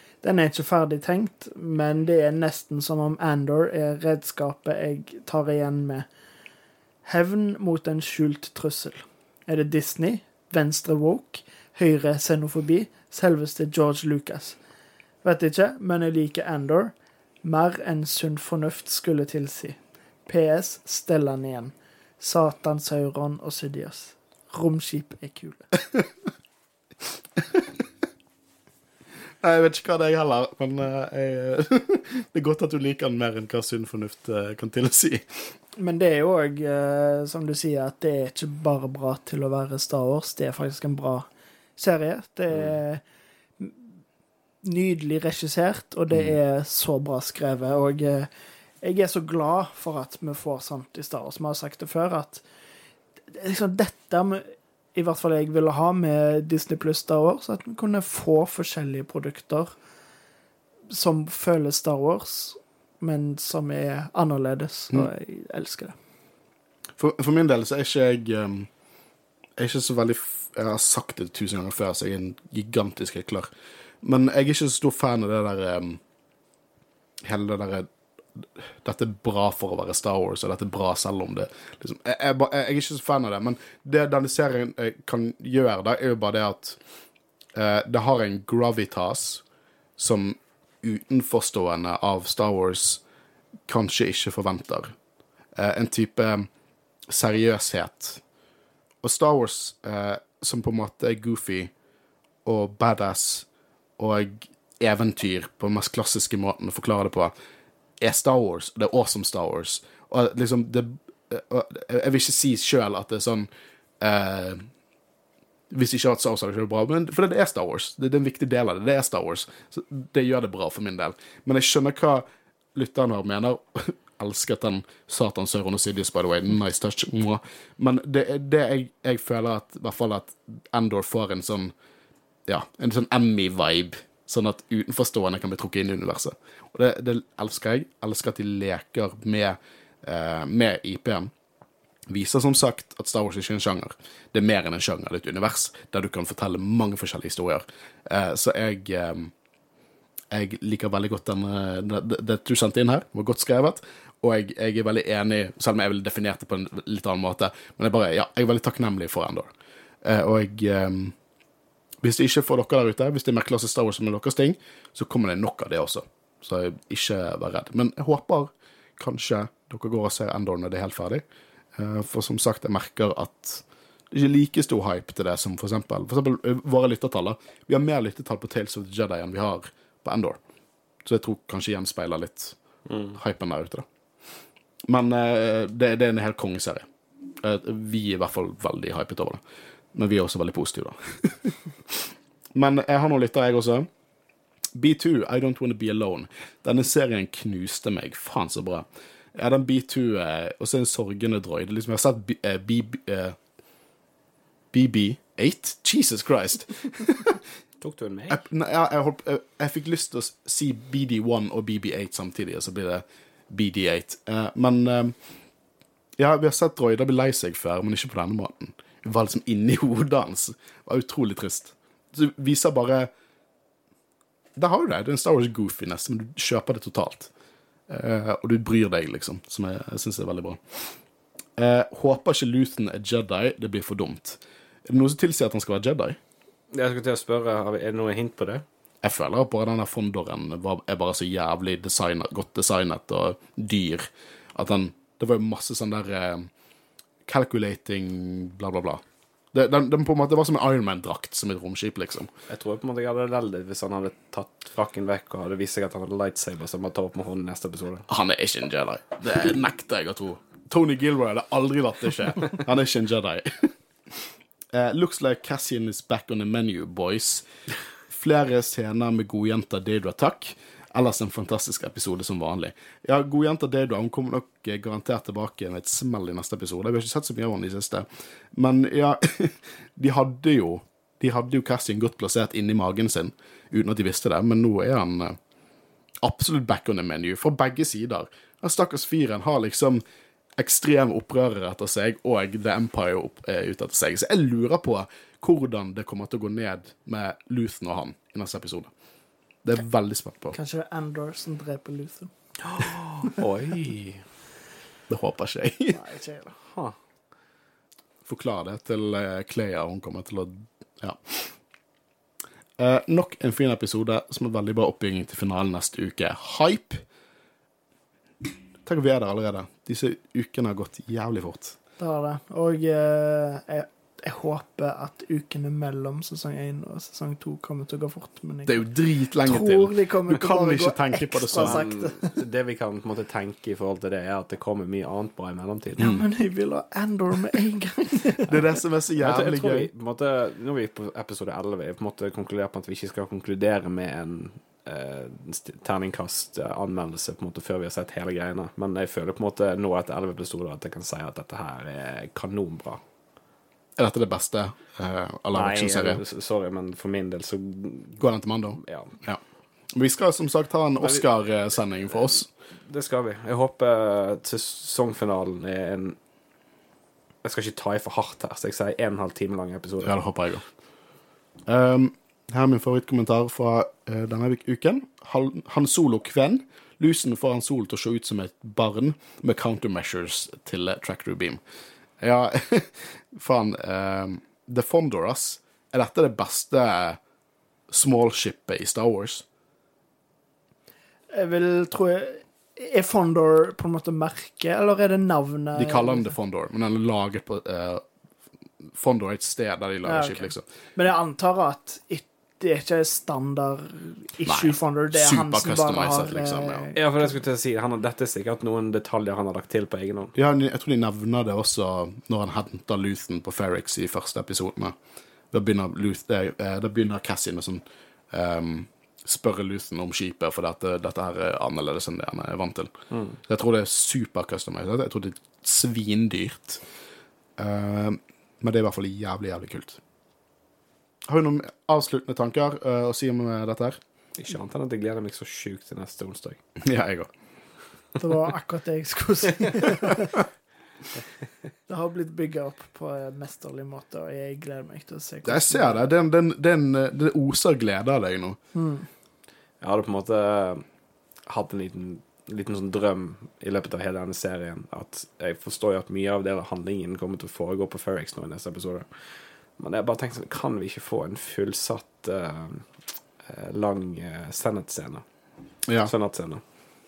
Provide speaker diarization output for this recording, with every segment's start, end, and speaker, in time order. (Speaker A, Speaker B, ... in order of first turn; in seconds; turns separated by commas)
Speaker A: 0.2-6.1, Speaker A: 7.0-14.6, Speaker A: 15.2-25.7, Speaker B: 27.4-27.7, Speaker B: 29.4-35.5, Speaker A: 35.8-43.0, Speaker A: 44.6-48.3, Speaker A: 48.8-52.4, Speaker A: 53.3-59.7, Speaker A: 60.9-66.0, Speaker B: 67.0-68.7, Speaker B: 69.6-73.5, Speaker B: 74.0-76.0, Speaker B: 77.2-86.8, Speaker B: 87.5-89.4, Speaker B: 90.0-93.0, Speaker B: 93.7-94.9, Speaker B: 95.5-96.5, Speaker B: 97.1-98.2, Speaker B: 99.0-101.7, Speaker B: 102.5-103.5, Speaker B: 104.0-107.3, Speaker B: 108.0-113.5, Speaker B: 114.0-114.7, Speaker B: 115.7-131.7, Speaker B: 132.5-141.3, Speaker B: 142.1-149.3, Speaker B: 150.3-159.5, Speaker B: 160.0-161.2, Speaker B: 162.0-171.2, Speaker B: 171.8-180.4, Speaker B: 181.0-182.6, Speaker C: 182.9-183.2, Speaker B: 183.1-183.9, Speaker B: 184.9-186.9, Speaker B: 187.4-189.4, Speaker B: 189.9-193.9, Speaker B: 194.8-203.4, Speaker B: 204.7-207.4, Speaker C: 207.8-208.4, Speaker B: 208.3-215.2, Speaker B: 216.2-223.1, Speaker B: 224.6-227.3, Speaker B: 227.9-230.9, Speaker B: 231.6-236.2, Speaker C: 236.7-238.6, Speaker B: 239.0-246.5, Speaker B: 247.3-249.0, Speaker B: 249.5-252.3, Speaker C: 252.5-258.1, Speaker B: 258.1-267.4, Speaker B: 268.1-285.4, Speaker B: 286.2-290.0, Speaker B: 290.6-298.9, Speaker B: 299.6-300.6, Speaker A: 300.5-303.4, Speaker C: 302.7-304.2, Speaker B: 305.1-306.0, Speaker A: 305.9-306.6, Speaker C: 306.7-306.9, Speaker B: 308.2-311.5, Speaker B: 312.8-317.0, Speaker B: 318.9-321.8, Speaker A: 322.0-332.3, Speaker B: 328.7-331.8, Speaker C: 331.6-336.1, Speaker A: 336.0-338.6, Speaker B: 338.4-339.9, Speaker C: 339.2-353.0, Speaker B: 354.0-356.2, Speaker C: 355.5-358.2, Speaker B: 358.2-359.4, Speaker C: 358.8-359.1, Speaker B: 359.9-362.5, Speaker C: 361.0-361.3, Speaker C: 362.9-366.2, Speaker C: 367.4-370.2, Speaker B: 370.0-370.6, Speaker B: 371.7-381.6, Speaker B: 382.2-387.2, Speaker B: 387.9-389.4, Speaker A: 391.3-396.3, Speaker B: 395.8-398.0, Speaker B: 398.9-400.6, Speaker A: 400.0-407.0, Speaker B: 404.4-406.9, Speaker C: 406.9-410.3, Speaker B: 410.4-414.9, Speaker B: 415.5-422.9, Speaker C: 423.1-423.4, Speaker B: 423.4-426.8, Speaker B: 427.6-430.0, Speaker B: 431.3-434.0, Speaker C: 434.4-436.6, Speaker B: 436.8-437.3, Speaker A: 438.2-440.4, Speaker A: 441.9-446.0, Speaker B: 445.4-448.6, Speaker A: 448.7-449.1, Speaker C: 449.8-450.9, Speaker C: 451.5-462.9, Speaker C: 463.4-465.2, Speaker B: 465.9-466.1, Speaker C: 466.1-466.6